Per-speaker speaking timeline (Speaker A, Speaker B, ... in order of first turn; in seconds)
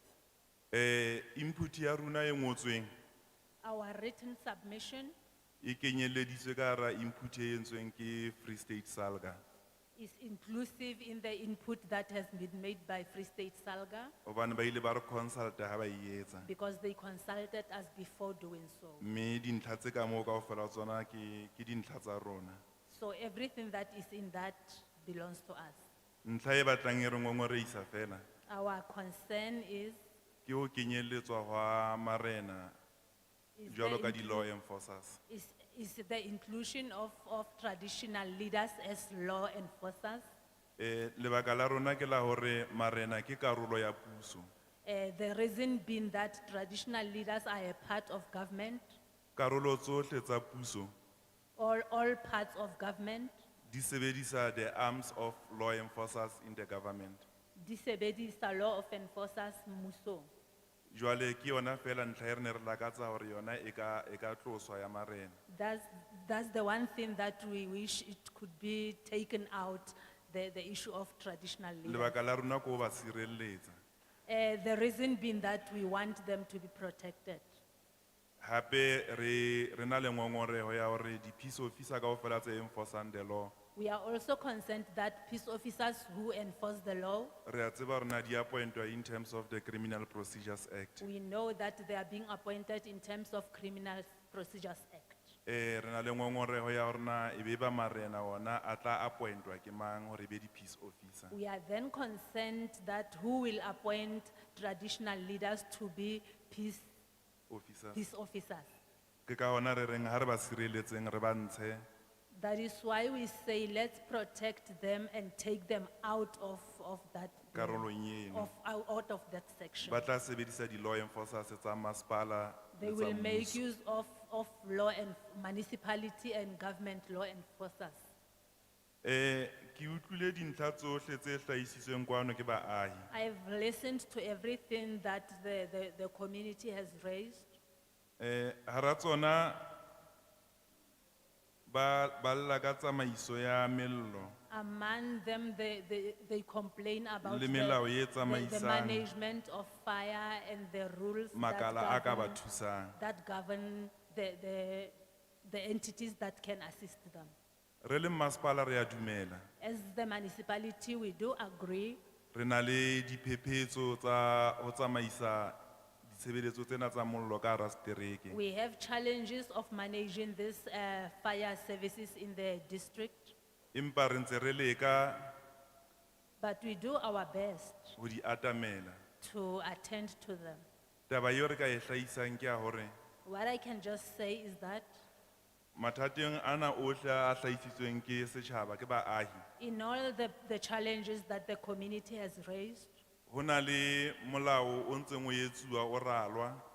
Speaker A: 0.7-2.9, 5.6-9.4, 14.2-16.5, 19.0-22.6, 26.2-28.2, 30.4-32.8, 33.7-35.2, 40.8-44.5, 49.4-50.9, 53.7-57.2, 60.9-65.4, 71.8-73.7, 78.4-83.5, 87.4-91.1, 95.5-101.3, 107.5-108.0, 109.2-111.8, 117.5-118.5, 119.8-123.6, 129.0-133.1, 138.2-139.7, 141.7-144.3, 147.2-149.1, 151.3-153.0, 157.8-159.4, 162.3-168.4, 173.7-175.3, 178.0-179.0, 181.1-182.9, 185.7-189.4, 193.3-196.6
Speaker B: 3.6-5.1, 9.9-14.1, 16.4-19.1, 22.9-25.9, 28.5-30.0, 33.6-34.5, 35.3-40.3, 44.8-49.0, 51.6-53.4, 57.6-60.3, 65.5-72.2, 74.3-77.6, 83.7-87.3, 91.0-95.4, 101.3-106.9, 107.9-108.7, 112.3-120.1, 122.7-128.1, 133.1-137.6, 144.5-152.4, 153.0-157.3, 159.6-162.0, 168.3-173.3, 176.4-177.9, 179.2-180.6, 183.2-185.0, 189.6-193.0